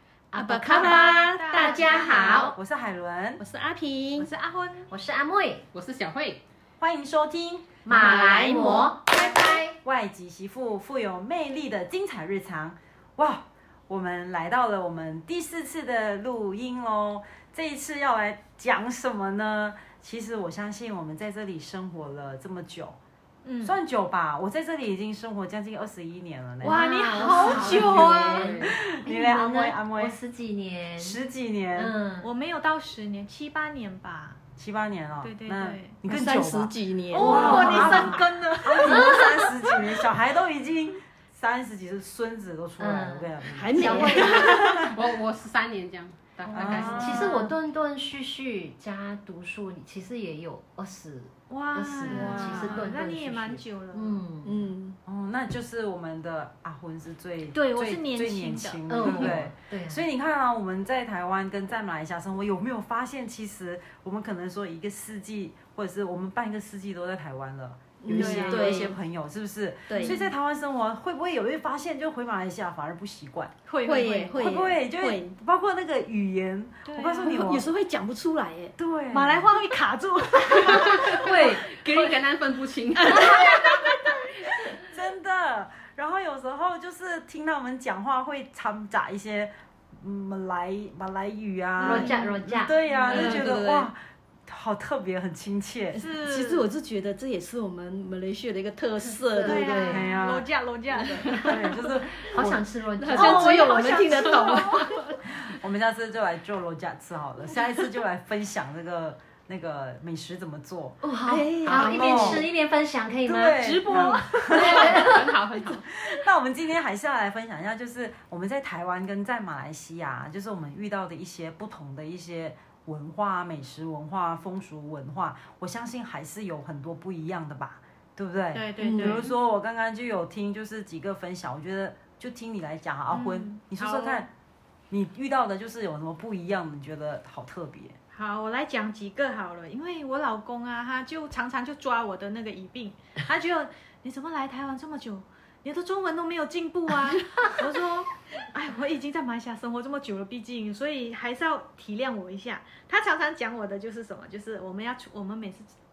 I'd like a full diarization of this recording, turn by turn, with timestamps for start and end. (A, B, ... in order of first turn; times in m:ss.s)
0:00.3-0:02.4 A
0:00.3-0:02.5 B
0:00.7-0:02.5 C
0:02.0-0:03.4 D
0:03.4-0:04.3 A
0:04.2-0:04.9 C
0:04.9-0:05.6 B
0:05.7-0:06.4 E
0:06.8-0:07.8 D
0:07.8-0:09.8 B
0:07.9-0:09.0 A
0:09.2-0:23.0 D
0:23.4-0:23.8 C
0:23.6-0:30.2 D
0:26.6-0:28.6 C
0:26.6-0:31.2 B
0:27.5-0:28.7 E
0:31.0-0:31.9 D
0:31.8-0:32.3 B
0:32.2-0:34.4 C
0:34.6-0:44.8 D
0:35.2-0:36.0 C
0:36.1-0:38.1 A
0:37.1-0:40.0 C
0:37.3-0:38.2 B
0:42.8-0:44.6 B
0:43.5-0:44.9 A
0:44.8-0:47.5 E
0:46.5-0:47.4 D
0:46.6-0:54.7 B
0:51.5-0:54.2 C
0:52.1-0:52.6 A
0:52.3-0:52.8 E
0:54.4-0:55.0 A
0:55.0-1:13.6 D
0:57.5-0:59.4 C
0:58.9-1:00.0 B
1:08.0-1:09.0 A
1:08.1-1:08.9 C
1:09.9-1:10.2 A
1:10.0-1:10.3 C
1:13.7-1:14.5 C
1:13.8-1:15.4 A
1:14.4-1:17.7 D
1:16.9-1:17.5 C
1:17.2-1:18.8 A
1:18.8-1:19.5 D
1:19.1-1:22.0 C
1:20.8-1:23.7 E
1:21.3-1:21.5 D
1:23.1-1:24.8 C
1:24.8-1:36.0 D
1:31.8-1:33.5 C
1:31.8-1:32.8 B
1:33.1-1:33.9 A
1:36.0-1:39.7 A
1:36.0-1:36.7 C
1:39.0-1:40.1 B
1:39.4-1:41.6 C
1:39.9-1:40.5 D
1:40.9-1:41.5 A
1:41.3-1:42.6 D
1:42.1-1:44.4 B
1:43.0-1:45.0 A
1:43.1-1:45.1 C
1:45.3-1:51.0 D
1:51.0-1:55.3 B
1:51.3-1:52.4 A
1:51.7-1:52.5 D
1:53.2-1:55.0 D
1:53.6-1:55.6 C
1:54.5-1:55.8 E
1:55.9-2:14.3 D
2:08.5-2:09.4 C
2:08.8-2:09.2 A
2:13.1-2:14.3 C
2:14.9-2:18.0 D
2:18.1-2:35.7 C